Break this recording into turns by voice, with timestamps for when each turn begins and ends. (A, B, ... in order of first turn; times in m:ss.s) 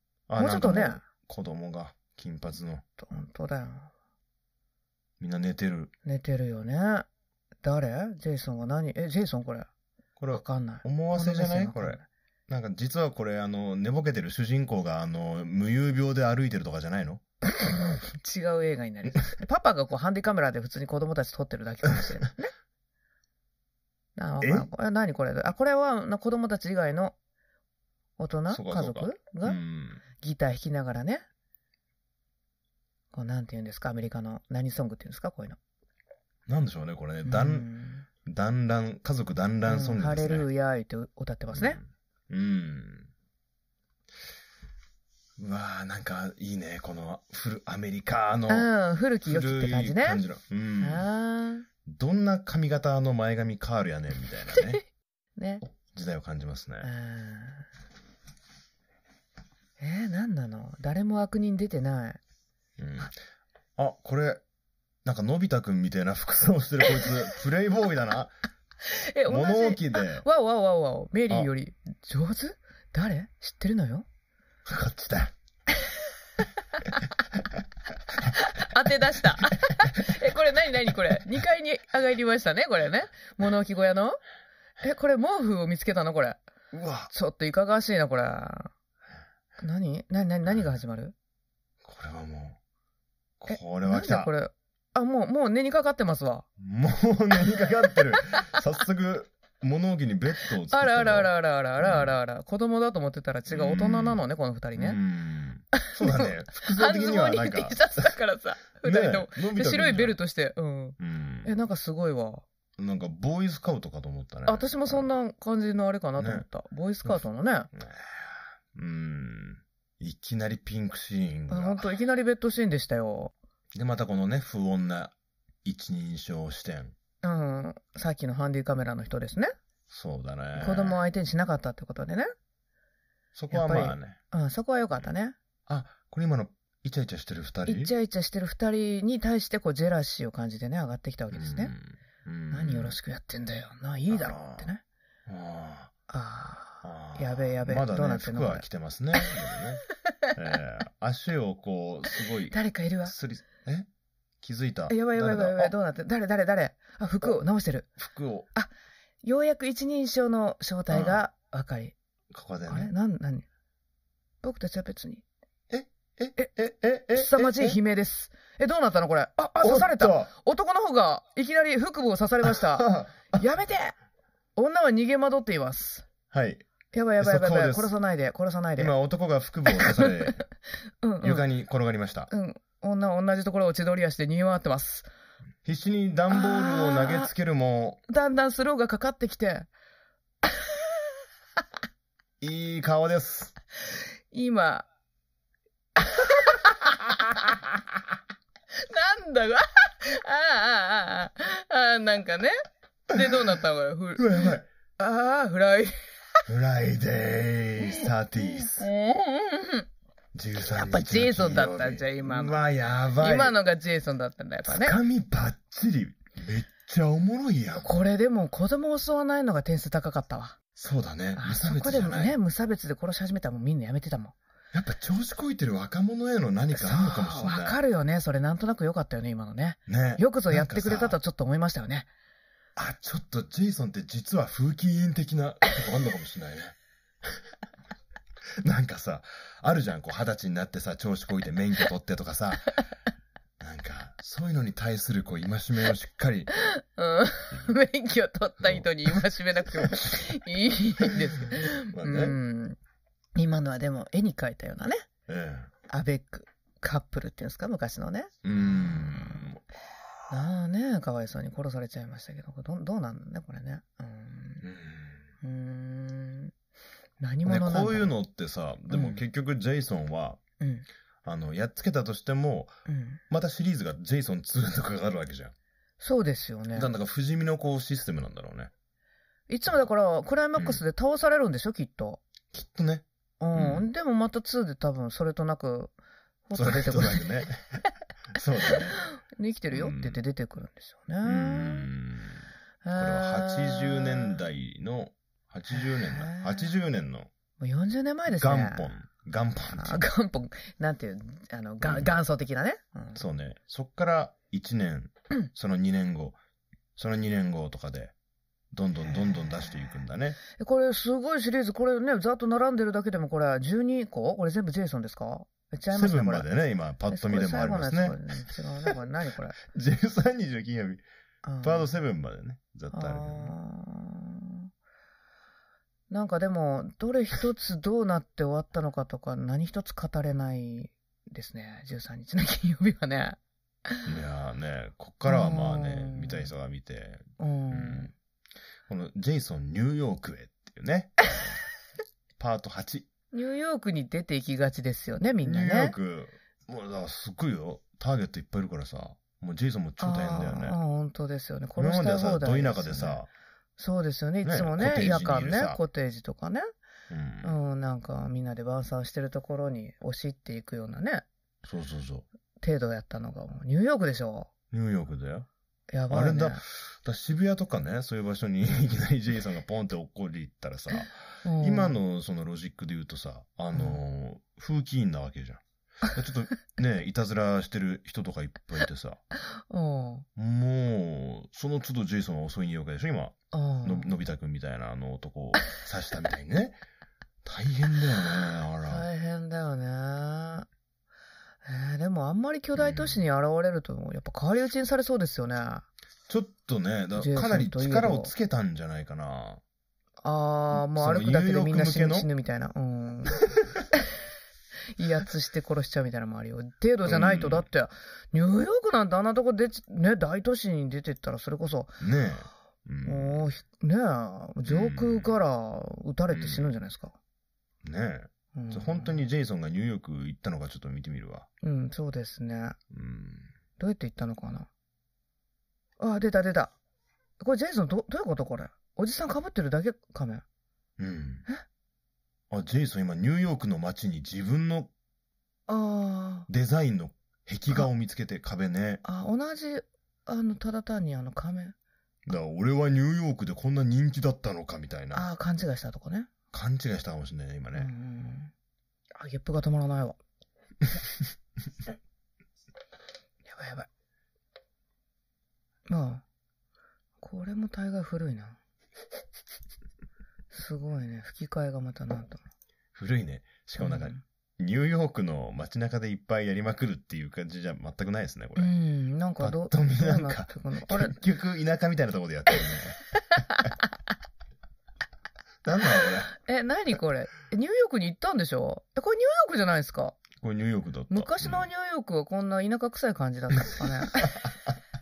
0:00.3-0:02.8 A
0:00.4-0:01.0 B
0:03.0-0:03.9 B
0:05.2-0:05.9 A
0:06.0-0:07.1 B
0:07.6-0:09.7 B
0:10.2-0:17.2 A
0:10.3-0:12.1 B
0:17.6-0:22.5 B
0:24.2-0:27.2 B
0:24.4-0:24.7 A
0:28.2-0:29.6 B
0:28.5-0:30.0 A
0:30.1-0:31.2 B
0:33.1-0:35.6 B
0:36.5-0:37.7 A
0:37.2-0:38.1 B
0:38.2-0:40.5 A
0:39.7-0:41.8 B
0:41.5-0:43.1 A
0:45.4-0:48.7 A
0:48.5-0:50.2 B
0:49.2-0:51.1 A
0:50.8-0:51.7 B
0:51.8-0:54.8 A
0:55.4-0:55.6 B
0:55.9-0:56.9 A
0:56.8-0:57.7 B
0:59.8-1:02.2 B
1:02.8-1:03.2 A
1:03.8-1:04.4 A
1:05.0-1:08.3 A
1:08.9-1:14.1 B
1:09.3-1:10.2 A
1:14.7-1:15.3 A
1:18.3-1:24.2 B
1:24.8-1:26.4 B
1:26.7-1:27.1 A
1:27.1-1:28.7 B
1:29.6-1:31.1 B
1:31.8-1:32.6 A
1:33.4-1:34.3 A
1:33.5-1:36.5 B
1:36.6-1:42.1 A
1:40.7-1:45.0 B
1:43.5-1:44.2 A
1:44.8-1:48.1 A
1:45.8-1:52.5 B
1:48.8-1:50.2 A
1:51.0-1:51.5 A
1:52.8-1:55.1 A
1:54.5-1:57.7 B
1:56.2-1:56.5 A
1:57.7-2:01.9 A
2:01.5-2:03.3 B
2:03.7-2:07.0 A
2:07.2-2:09.5 B
2:09.9-2:11.0 A
2:10.6-2:12.3 B
2:13.4-2:14.2 A
2:13.5-2:15.4 B
2:15.7-2:17.9 A
2:17.7-2:21.7 B
2:21.3-2:23.0 A
2:22.5-2:24.8 B
2:24.1-2:24.7 A
2:25.2-2:25.9 A
2:26.1-2:28.7 B
2:26.8-2:33.9 A
2:32.5-2:33.1 B
2:34.4-2:35.7 A
2:34.9-2:38.0 B
2:38.0-2:38.5 A
2:39.2-2:42.0 B
2:40.9-2:41.2 A
2:42.3-2:42.9 A
2:42.7-2:43.5 B
2:44.4-2:45.2 B
2:45.7-2:47.8 A
2:47.1-2:54.0 B
2:49.6-2:50.3 A
2:52.4-2:53.4 A
2:54.6-2:56.1 B
2:56.3-2:56.6 A
2:56.9-2:58.9 B
2:57.2-2:57.9 A
2:58.8-3:00.4 A
2:59.7-3:00.4 B
3:01.0-3:01.4 B
3:01.2-3:02.3 A
3:02.3-3:05.1 B
3:05.6-3:08.0 A
3:06.3-3:07.3 B
3:08.1-3:09.7 B
3:12.4-3:13.5 A
3:14.3-3:14.9 B
3:16.0-3:17.6 B
3:18.8-3:22.6 B
3:23.1-3:26.1 B
3:24.2-3:24.7 A
3:26.5-3:28.9 A
3:27.8-3:29.9 B
3:30.3-3:33.6 A
3:30.6-3:32.6 B
3:33.2-3:35.0 B
3:34.7-3:37.9 A
3:37.8-3:40.6 B
3:40.8-3:42.4 A
3:41.4-3:44.4 B
3:44.7-3:47.8 A
3:46.7-3:52.1 B
3:49.9-3:51.2 A
3:52.8-3:57.4 A
3:58.6-4:02.7 A
4:03.6-4:06.5 A
4:06.5-4:12.8 B
4:11.5-4:12.4 A
4:13.4-4:15.1 B
4:15.3-4:15.7 A
4:15.9-4:19.5 B
4:18.4-4:19.6 A
4:20.3-4:24.6 B
4:24.6-4:25.2 A
4:25.4-4:26.5 B
4:27.2-4:28.1 B
4:27.4-4:30.4 A
4:28.9-4:29.2 B
4:30.6-4:30.9 B
4:31.2-4:32.8 A
4:32.9-4:33.2 B
4:33.3-4:35.5 A
4:36.0-4:36.9 B
4:36.8-4:38.7 A
4:39.5-4:42.2 B
4:40.6-4:40.8 A
4:42.5-4:43.9 A
4:43.4-4:45.9 B
4:46.5-4:47.3 B
4:46.5-4:47.6 A
4:48.3-4:49.0 A
4:48.7-4:51.9 B
4:49.7-4:50.2 A
4:51.2-4:57.3 A
4:52.8-4:54.4 B
4:55.7-4:56.7 B
4:57.6-4:58.9 B
4:58.3-5:00.0 A
4:59.7-5:03.2 B
5:01.8-5:02.1 A
5:03.2-5:06.4 A
5:07.0-5:08.1 A
5:08.7-5:10.4 A
5:09.1-5:10.0 B
5:10.5-5:16.5 B
5:15.9-5:18.2 A
5:17.1-5:19.6 B
5:19.6-5:21.0 A
5:21.4-5:21.9 B
5:21.6-5:23.5 A
5:22.9-5:24.7 B
5:26.1-5:34.1 B
5:34.0-5:38.1 A
5:35.2-5:36.5 B
5:37.4-5:38.1 B
5:38.9-5:41.6 A
5:42.4-5:43.1 A
5:43.3-5:46.0 B
5:45.4-5:50.8 A
5:50.0-5:53.2 B
5:51.8-5:53.3 A
5:53.8-5:56.7 B
5:54.4-5:55.8 A
5:57.1-5:57.6 A
5:57.4-6:01.2 B
6:01.6-6:02.2 A
6:02.6-6:04.5 B
6:04.7-6:05.5 A
6:05.9-6:06.6 B
6:06.1-6:19.2 A
6:11.4-6:12.0 B
6:19.6-6:20.2 B
6:20.4-6:26.8 A
6:23.5-6:24.2 B
6:27.4-6:29.0 A
6:28.8-6:30.7 B
6:31.6-6:35.9 B
6:32.8-6:33.2 A
6:36.3-6:39.6 A
6:37.2-6:38.3 B
6:40.2-6:43.4 B
6:40.7-6:42.3 A
6:45.0-6:52.0 B
6:47.0-6:47.7 A
6:52.0-6:53.5 A
6:53.0-6:57.2 B
6:54.6-6:55.4 A
6:56.3-6:56.8 A
6:57.8-7:01.5 A
6:58.5-6:59.2 B
7:01.6-7:02.8 B
7:02.9-7:03.5 A
7:03.8-7:04.7 B
7:06.0-7:06.8 B
7:07.4-7:10.4 B
7:11.0-7:11.4 A
7:12.5-7:14.9 A
7:15.7-7:16.5 B
7:16.5-7:19.0 A
7:19.0-7:21.8 B
7:22.2-7:25.3 A
7:25.1-7:26.3 B
7:26.5-7:27.9 A
7:27.7-7:28.5 B
7:29.2-7:30.2 B
7:33.5-7:33.9 B
7:35.9-7:36.2 B
7:37.2-7:38.6 B
7:40.5-7:42.4 B
7:42.9-7:48.7 A
7:43.8-7:44.2 B
7:48.6-7:51.2 B
7:49.4-7:53.0 A
7:55.6-7:56.3 A
7:56.3-8:00.2 B
8:00.4-8:01.7 A
8:01.1-8:04.5 B
8:03.6-8:04.8 A